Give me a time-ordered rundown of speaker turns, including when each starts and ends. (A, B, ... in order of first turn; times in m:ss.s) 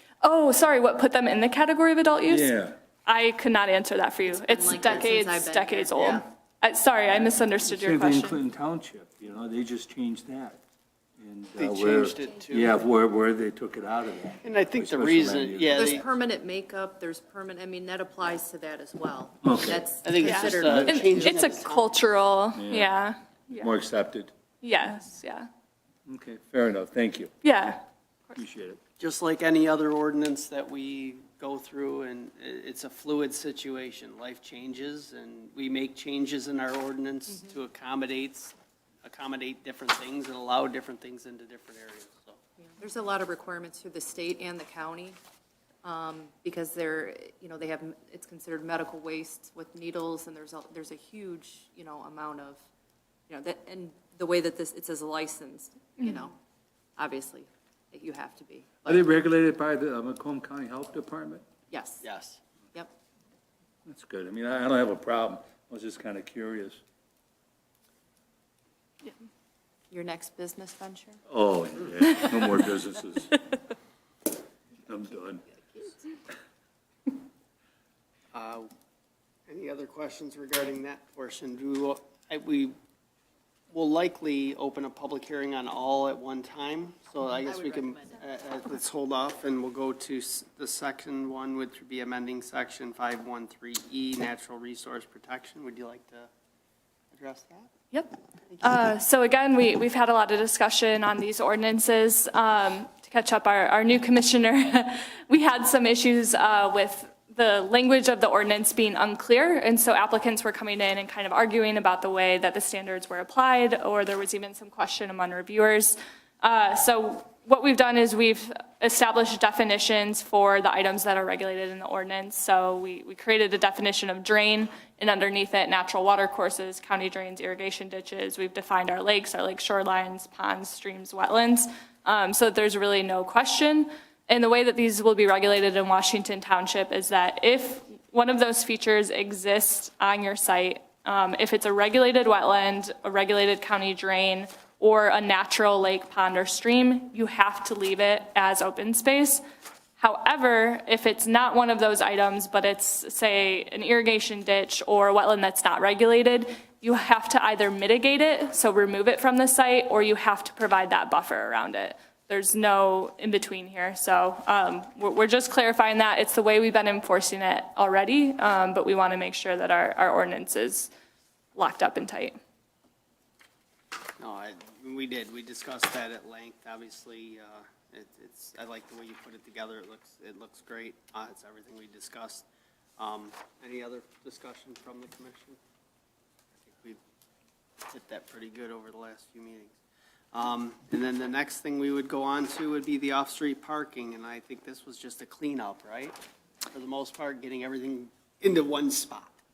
0:00.2-0:02.5 A
0:02.2-0:02.8 B
0:03.1-0:08.4 A
0:04.3-0:06.2 C
0:07.7-0:10.6 B
0:11.2-0:16.0 B
0:11.6-0:12.8 D
0:14.4-0:16.0 D
0:15.7-0:21.5 C
0:19.4-0:19.9 B
0:20.0-0:21.9 D
0:20.2-0:23.7 A
0:20.7-0:20.9 B
0:22.6-0:22.9 B
0:23.5-0:24.3 B
0:24.6-0:25.5 A
0:26.1-0:27.3 B
0:27.4-0:27.8 A
0:28.3-0:28.8 B
0:29.0-0:42.4 D
0:42.8-0:45.2 C
0:45.8-0:52.6 C
0:53.3-0:56.3 C
0:57.0-0:59.1 C
0:58.9-1:01.4 B
1:01.7-1:02.0 C
1:02.0-1:02.4 D
1:03.9-1:06.8 B
1:09.9-1:11.2 C
1:11.3-1:13.4 B
1:14.9-1:15.4 B
1:18.3-1:18.7 D
1:19.5-1:22.8 D
1:23.7-1:36.3 D
1:27.5-1:27.8 C
1:37.1-1:37.7 D
1:37.9-2:29.4 A
2:30.0-2:50.9 A
2:51.6-2:52.4 A
2:54.2-3:02.5 D
3:03.0-3:05.6 D
3:06.6-3:07.0 D
3:07.9-3:09.8 D
3:10.3-3:16.2 D
3:16.7-3:19.4 D